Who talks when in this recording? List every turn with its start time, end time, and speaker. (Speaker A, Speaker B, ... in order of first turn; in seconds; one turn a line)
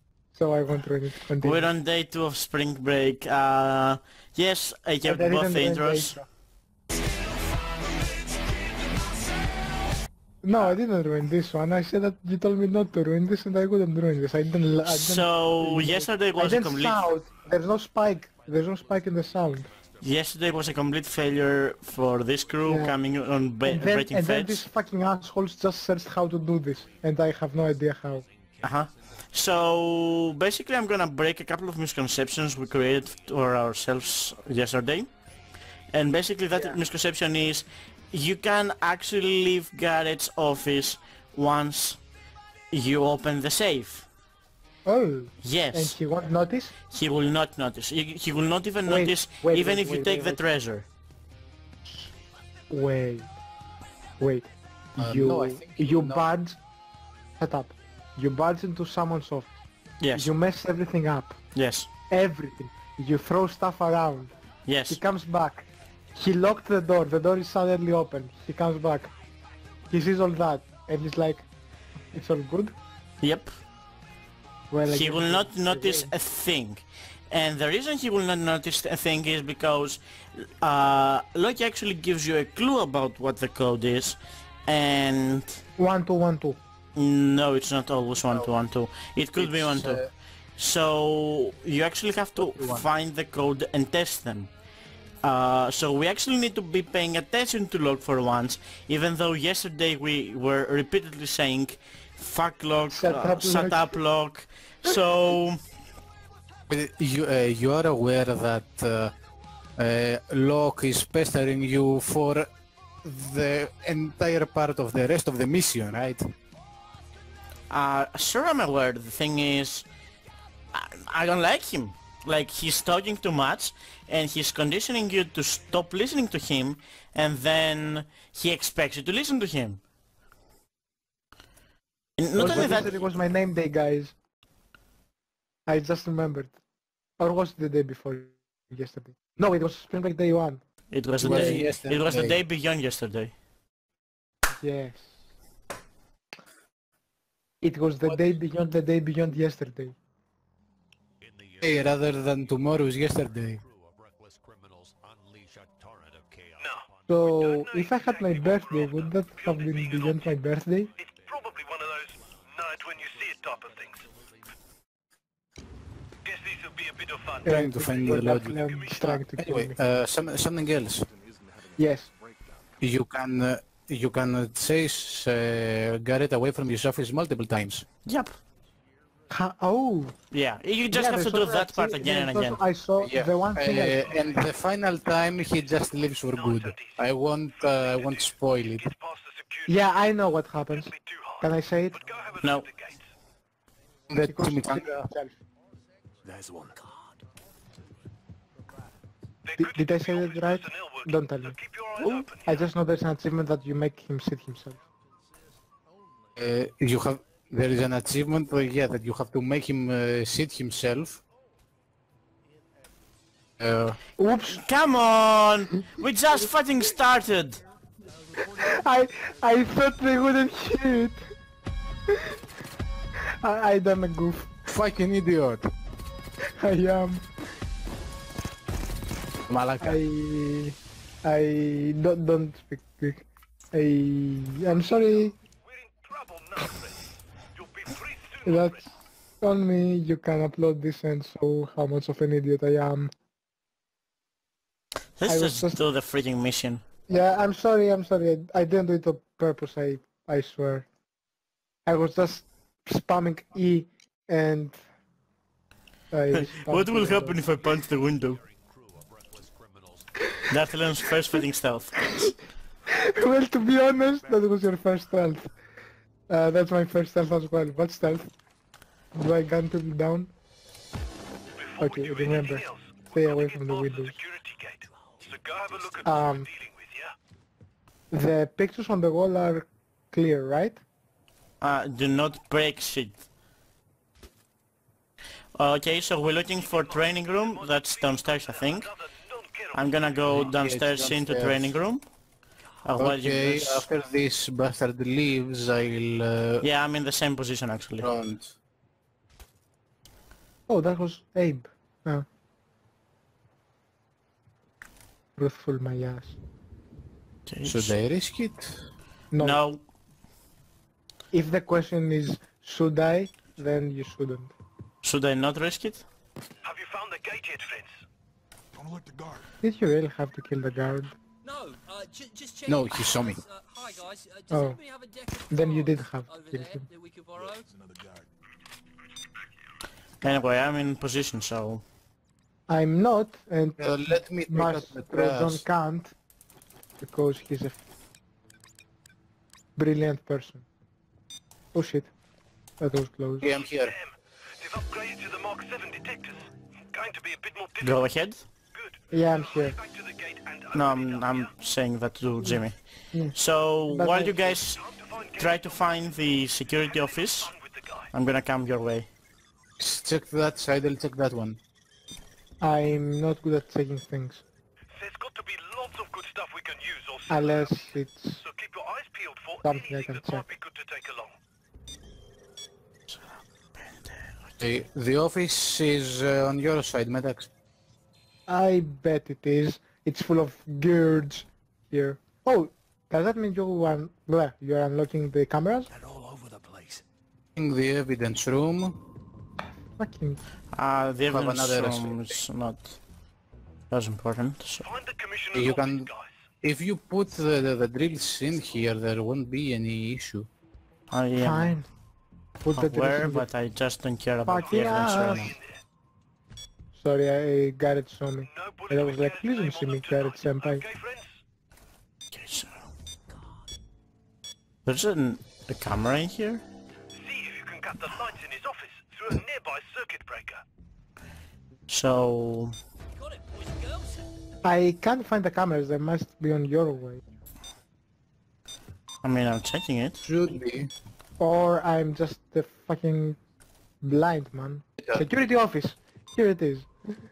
Speaker A: 0.3-1.7
Speaker B: 1.4-6.2
Speaker A: 5.0-6.3
Speaker A: 10.4-19.7
Speaker B: 14.8-17.1
Speaker C: 16.5-17.5
Speaker C: 18.3-24.5
Speaker B: 20.0-24.6
Speaker A: 22.7-22.9
Speaker A: 23.7-28.3
Speaker C: 26.0-30.8
Speaker B: 28.6-35.1
Speaker C: 32.2-35.5
Speaker B: 35.9-42.0
Speaker C: 36.5-36.8
Speaker B: 42.7-44.1
Speaker A: 44.9-46.7
Speaker B: 45.4-46.0
Speaker B: 46.9-50.9
Speaker A: 48.9-50.4
Speaker A: 51.9-52.1
Speaker A: 52.7-53.3
Speaker A: 54.2-56.6
Speaker D: 55.0-56.3
Speaker A: 57.4-59.5
Speaker B: 60.0-60.3
Speaker A: 60.1-61.4
Speaker B: 61.5-61.9
Speaker A: 62.1-64.3
Speaker B: 64.7-65.0
Speaker A: 64.9-69.1
Speaker A: 69.9-71.5
Speaker A: 72.1-72.8
Speaker B: 73.2-73.5
Speaker A: 74.7-76.1
Speaker B: 74.9-85.6
Speaker A: 85.8-86.6
Speaker B: 87.0-90.0
Speaker D: 88.2-88.5
Speaker D: 89.4-90.1
Speaker B: 90.6-94.5
Speaker D: 92.4-92.8
Speaker B: 95.2-105.6
Speaker A: 102.9-103.9
Speaker D: 106.7-109.1
Speaker D: 109.8-112.5
Speaker D: 113.0-116.3
Speaker B: 117.7-119.9
Speaker B: 120.7-129.8
Speaker B: 132.2-133.0
Speaker A: 132.4-134.1
Speaker A: 135.7-136.6
Speaker A: 137.2-140.6
Speaker B: 140.9-143.3
Speaker D: 141.2-142.4
Speaker A: 141.2-141.7
Speaker A: 144.6-145.1
Speaker A: 147.6-149.9
Speaker C: 151.2-158.3
Speaker D: 151.6-153.6
Speaker E: 156.6-160.3
Speaker A: 157.1-160.9
Speaker C: 158.9-159.9
Speaker E: 161.0-164.0
Speaker C: 161.0-164.5
Speaker E: 166.2-169.1
Speaker A: 167.4-169.8
Speaker D: 167.5-171.1
Speaker A: 171.8-172.1
Speaker D: 172.8-177.8
Speaker B: 178.1-178.4
Speaker C: 178.9-179.4
Speaker A: 179.3-180.2
Speaker B: 180.3-182.6
Speaker A: 180.9-184.2
Speaker D: 183.0-188.9
Speaker C: 183.2-186.1
Speaker E: 186.3-189.8
Speaker A: 189.7-192.0
Speaker E: 190.7-193.0
Speaker C: 191.9-192.6
Speaker B: 192.4-192.7
Speaker D: 194.1-195.1
Speaker A: 194.2-195.3
Speaker C: 195.6-196.8
Speaker F: 196.8-197.2
Speaker E: 199.4-202.5
Speaker A: 199.6-201.6
Speaker B: 202.0-202.3
Speaker A: 202.5-204.8
Speaker C: 204.8-206.6
Speaker D: 206.4-211.2
Speaker C: 208.1-208.6
Speaker D: 213.6-214.0
Speaker A: 214.2-214.6
Speaker B: 214.5-217.6
Speaker A: 218.6-221.2
Speaker A: 222.1-222.3
Speaker A: 223.4-224.5
Speaker D: 224.7-225.7
Speaker A: 226.6-227.3
Speaker D: 229.5-230.0
Speaker A: 229.8-235.3
Speaker E: 235.7-238.9
Speaker A: 238.4-238.9
Speaker A: 239.4-243.1
Speaker B: 245.2-246.8
Speaker A: 245.3-245.8
Speaker A: 247.1-250.9
Speaker A: 251.9-254.8
Speaker A: 256.1-257.4
Speaker B: 256.3-258.4
Speaker C: 258.3-260.3
Speaker B: 260.5-262.1
Speaker C: 261.9-262.3
Speaker A: 262.9-265.5
Speaker C: 264.1-265.3
Speaker A: 266.3-268.3
Speaker A: 269.1-270.3
Speaker E: 271.6-277.1
Speaker A: 271.8-274.1
Speaker C: 275.2-276.3
Speaker A: 276.0-276.5
Speaker A: 278.1-280.8
Speaker B: 281.6-283.2
Speaker B: 285.6-288.9
Speaker E: 286.6-290.1
Speaker B: 289.7-292.1
Speaker D: 290.3-291.6
Speaker B: 292.8-293.9
Speaker D: 293.0-296.7
Speaker B: 296.6-298.1
Speaker D: 298.0-298.5
Speaker A: 300.7-302.3
Speaker A: 305.4-306.4
Speaker B: 307.5-308.0
Speaker D: 307.6-308.8
Speaker A: 309.3-309.6
Speaker B: 309.4-309.8
Speaker A: 311.3-314.5
Speaker B: 315.0-316.1
Speaker E: 316.6-318.0
Speaker A: 319.6-321.2
Speaker F: 321.4-327.7
Speaker D: 322.7-323.4
Speaker A: 324.5-324.8
Speaker A: 325.5-326.9
Speaker B: 330.2-331.8
Speaker A: 332.7-336.1
Speaker D: 333.8-335.6
Speaker A: 337.0-337.8
Speaker A: 339.8-340.6
Speaker A: 341.7-342.1
Speaker A: 342.8-343.5
Speaker D: 343.4-344.0
Speaker E: 343.7-348.0
Speaker B: 347.8-348.4
Speaker E: 348.7-351.5
Speaker A: 349.1-349.8
Speaker B: 350.7-354.8
Speaker A: 353.9-354.5
Speaker E: 354.5-355.9
Speaker B: 355.4-357.5
Speaker E: 356.8-358.1
Speaker B: 358.1-359.1
Speaker D: 359.8-361.6
Speaker A: 362.6-364.4
Speaker E: 364.9-367.9
Speaker A: 367.3-368.4
Speaker E: 368.4-371.4
Speaker A: 369.6-370.4
Speaker B: 373.1-374.3
Speaker D: 374.6-377.5
Speaker A: 378.5-385.9
Speaker C: 386.1-387.0
Speaker D: 387.6-389.0
Speaker A: 390.0-390.4
Speaker B: 390.7-393.0
Speaker D: 391.3-392.4
Speaker B: 393.9-394.9
Speaker E: 394.8-396.3
Speaker D: 395.5-396.1
Speaker D: 396.6-400.5
Speaker B: 401.1-401.7
Speaker A: 401.4-401.9
Speaker A: 402.6-403.5
Speaker B: 402.7-405.6
Speaker A: 404.5-405.6
Speaker E: 405.1-405.8
Speaker A: 406.9-410.8
Speaker E: 408.5-411.3
Speaker B: 412.3-412.8
Speaker B: 414.9-416.6
Speaker E: 417.1-420.6
Speaker B: 421.9-422.8
Speaker F: 423.2-424.3
Speaker A: 424.6-427.2
Speaker B: 429.2-430.2
Speaker D: 430.2-430.9
Speaker A: 431.4-433.4
Speaker A: 434.0-436.9
Speaker D: 435.0-435.2